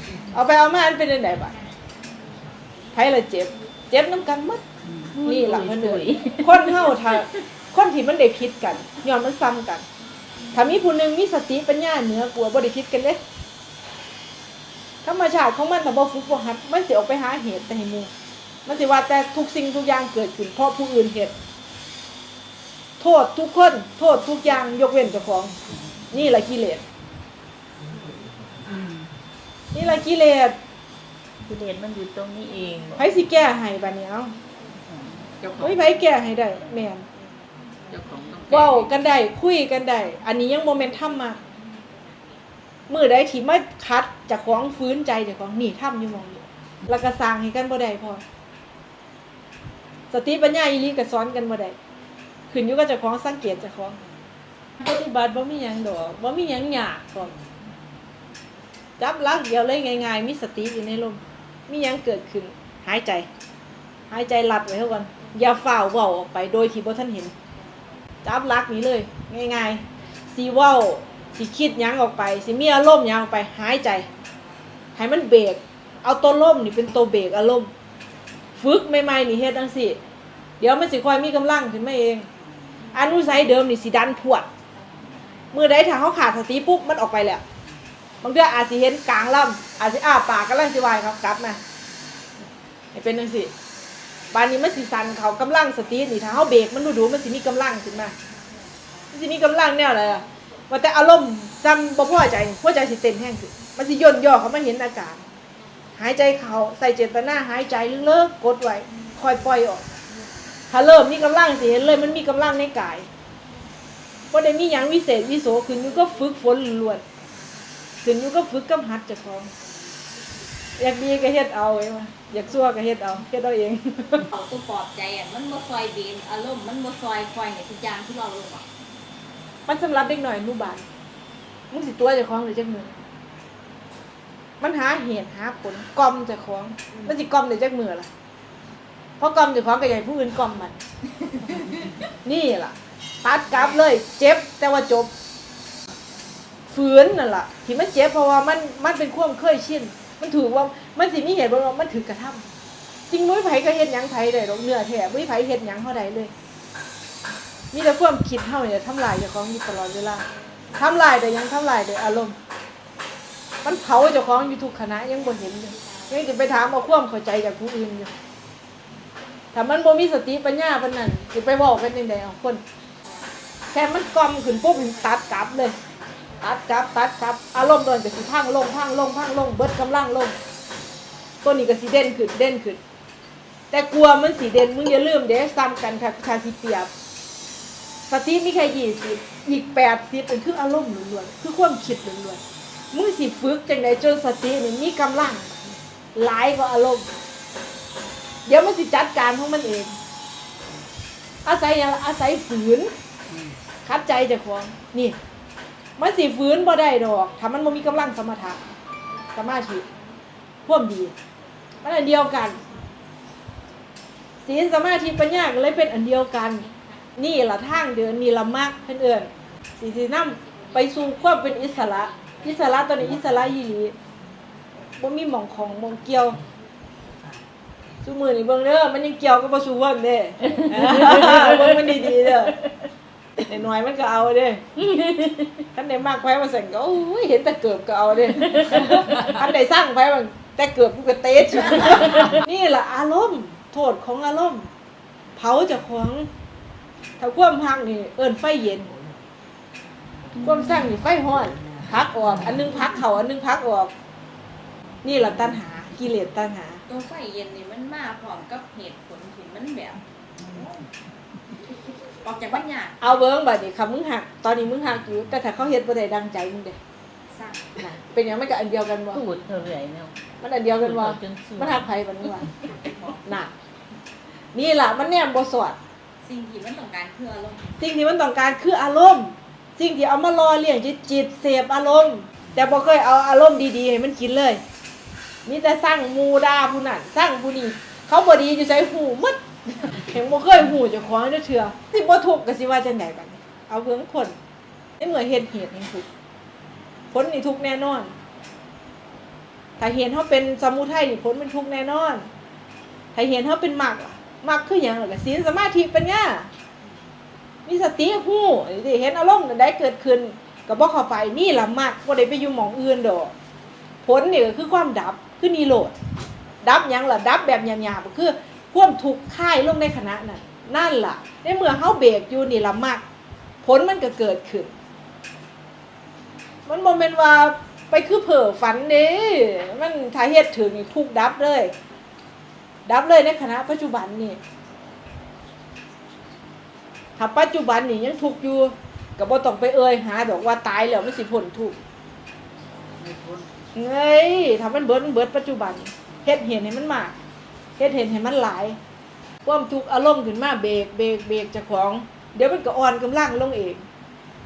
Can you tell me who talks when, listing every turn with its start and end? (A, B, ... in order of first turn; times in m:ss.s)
0:00.3-0:01.6 A
0:02.9-0:04.6 A
0:05.1-0:07.1 B
0:05.2-0:09.8 A
0:10.5-0:13.2 A
0:15.0-0:18.1 A
0:18.7-0:21.3 A
0:23.0-0:25.5 A
0:26.1-0:26.8 A
0:28.6-0:28.9 C
0:29.7-0:30.6 A
0:31.4-0:33.0 B
0:33.0-0:34.3 A
0:34.9-0:35.9 C
0:35.6-0:37.1 A
0:37.9-0:38.9 C
0:38.5-0:41.4 A
0:42.9-0:48.2 A
0:50.1-0:51.8 A
0:52.5-0:54.0 A
0:54.8-0:57.4 A
0:59.0-1:03.3 A
1:04.1-1:07.3 A
1:08.2-1:14.1 A
1:15.0-1:17.7 A
1:18.6-1:20.0 A
1:20.6-1:22.3 A
1:22.9-1:24.5 A
1:25.5-1:27.4 A
1:28.2-1:31.6 A
1:32.9-1:33.5 A
1:34.3-1:38.1 A
1:39.1-1:45.2 A
1:46.0-1:49.8 A
1:50.7-1:53.1 A
1:54.3-1:57.0 A
1:58.0-1:59.5 A
2:00.8-2:04.3 A
2:04.3-2:08.7 D
2:09.7-2:10.8 A
2:11.7-2:13.0 A
2:14.6-2:18.1 A
2:19.2-2:20.8 A
2:22.2-2:25.1 A
2:26.7-2:32.4 A
2:33.1-2:36.3 A
2:37.7-2:42.4 A
2:43.6-2:48.1 A
2:49.5-2:52.6 A
2:53.7-2:55.8 A
2:56.4-3:00.4 A
3:01.4-3:02.8 A
3:03.7-3:06.9 A
3:08.1-3:12.4 A
3:12.9-3:15.5 A
3:16.2-3:17.1 A
3:18.5-3:20.0 A
3:21.4-3:22.9 A
3:23.3-3:23.6 C
3:23.8-3:25.2 A
3:26.0-3:28.6 A
3:29.3-3:29.8 A
3:30.7-3:31.1 A
3:31.8-3:32.6 A
3:34.4-3:44.0 A
3:45.0-3:46.4 A
3:48.0-3:52.6 A
3:51.0-3:51.4 B
3:53.4-3:54.7 A
3:54.8-3:55.5 B
3:55.8-4:04.7 A
3:58.7-3:59.2 B
4:05.4-4:06.3 A
4:07.2-4:08.9 A
4:10.4-4:13.9 A
4:15.0-4:16.8 A
4:16.9-4:20.9 D
4:22.2-4:23.2 D
4:23.0-4:26.8 A
4:27.3-4:27.8 D
4:27.8-4:29.2 A
4:29.1-4:30.1 B
4:30.4-4:32.5 A
4:30.8-4:31.9 B
4:32.7-4:33.3 D
4:33.2-4:33.5 A
4:34.5-4:35.8 A
4:36.2-4:37.7 D
4:37.8-4:44.6 A
4:45.5-4:54.4 A
4:55.0-4:56.1 A
4:57.1-4:58.1 A
4:59.8-5:02.3 A
5:03.2-5:06.5 A
5:07.7-5:13.3 A
5:14.0-5:15.9 A
5:16.6-5:23.0 A
5:23.6-5:24.7 A
5:26.7-5:31.7 A
5:32.9-5:34.4 A
5:37.2-5:41.8 A
5:43.0-5:43.5 C
5:43.8-5:47.1 A
5:47.8-5:48.8 A
5:49.4-5:53.8 A